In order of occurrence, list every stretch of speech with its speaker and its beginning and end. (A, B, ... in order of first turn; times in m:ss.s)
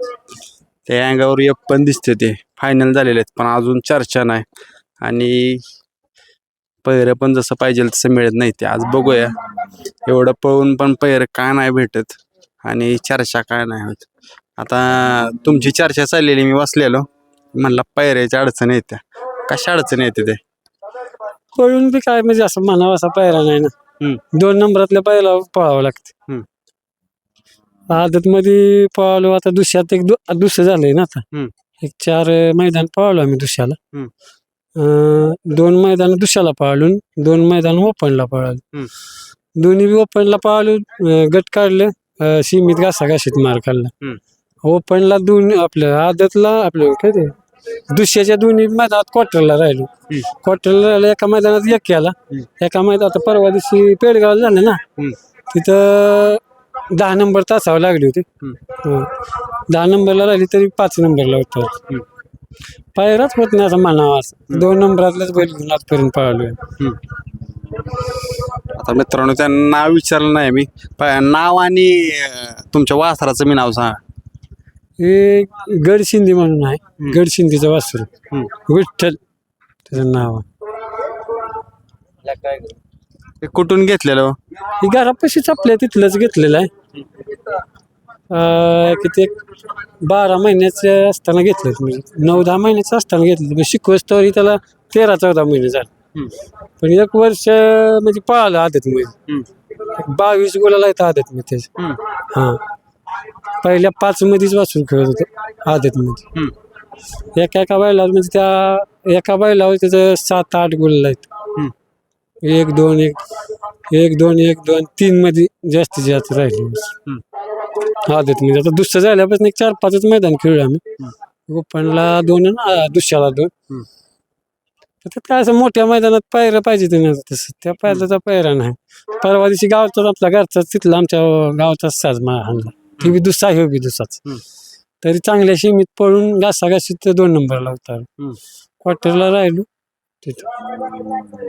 0:00.9-0:04.5 A
0:05.0-0:05.6 A
0:06.8-0:09.4 A
0:10.1-0:20.4 A
0:21.6-0:23.7 B
0:24.3-0:26.1 B
0:27.9-0:31.2 B
0:31.8-0:33.8 B
0:34.8-0:38.6 B
0:39.6-0:43.9 B
0:44.6-0:47.3 B
0:47.9-0:54.8 B
0:55.5-0:59.1 B
0:59.7-1:01.8 B
1:03.0-1:06.6 B
1:08.8-1:14.0 A
1:15.0-1:18.1 B
1:18.6-1:19.2 B
1:19.9-1:20.4 B
1:22.3-1:22.6 A
1:23.4-1:24.4 A
1:24.8-1:26.7 B
1:28.3-1:29.3 B
1:30.0-1:35.9 B
1:36.8-1:39.2 B
1:39.9-1:41.7 B
1:42.3-1:42.6 B
1:43.6-1:46.2 B
1:47.3-1:51.3 B
1:52.4-1:53.2 B
1:53.9-1:56.9 B
1:57.9-2:00.8 B
2:01.5-2:03.5 B
2:05.0-2:14.3 B
2:15.0-2:18.1 B
2:18.8-2:19.7 B
2:20.2-2:20.5 B
2:20.8-2:21.2 A